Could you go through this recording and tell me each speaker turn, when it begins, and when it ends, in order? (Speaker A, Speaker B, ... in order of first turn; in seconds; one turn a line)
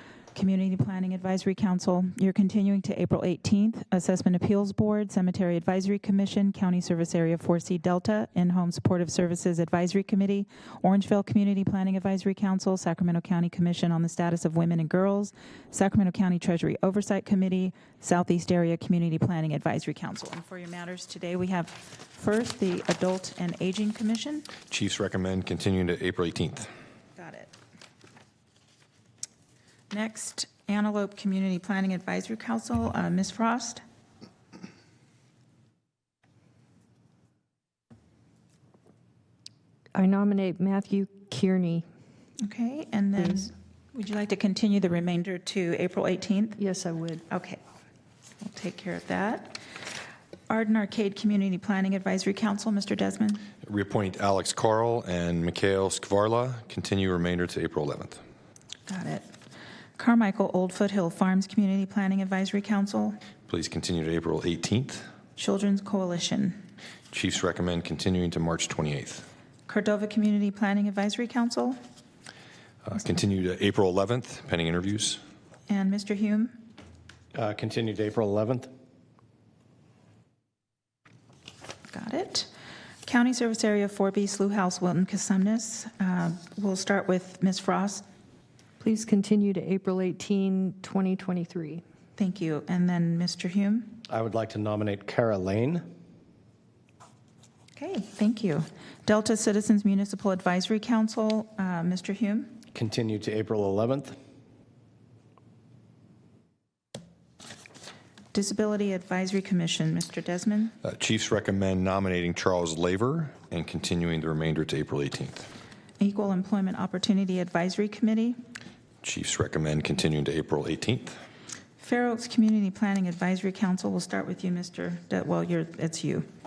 Speaker A: 0.3-24.5
Speaker B: 24.7-26.7
Speaker A: 27.2-27.5
Speaker A: 29.9-33.8
Speaker C: 39.9-41.8
Speaker A: 42.4-46.6
Speaker C: 46.6-47.2
Speaker A: 47.3-47.6
Speaker A: 48.4-49.6
Speaker A: 50.5-53.4
Speaker B: 53.6-58.2
Speaker A: 58.9-59.3
Speaker A: 60.0-63.2
Speaker B: 63.5-65.0
Speaker A: 65.4-66.6
Speaker B: 67.1-69.2
Speaker A: 69.7-71.8
Speaker B: 72.8-75.2
Speaker A: 75.7-76.6
Speaker D: 77.3-78.7
Speaker A: 81.9-82.5
Speaker A: 83.0-88.0
Speaker C: 88.8-91.8
Speaker A: 92.2-94.0
Speaker D: 94.1-95.8
Speaker A: 97.8-102.6
Speaker D: 102.7-104.2
Speaker A: 108.3-110.7
Speaker B: 110.8-115.5
Speaker A: 116.0-118.4
Speaker B: 119.0-121.2
Speaker A: 121.8-126.3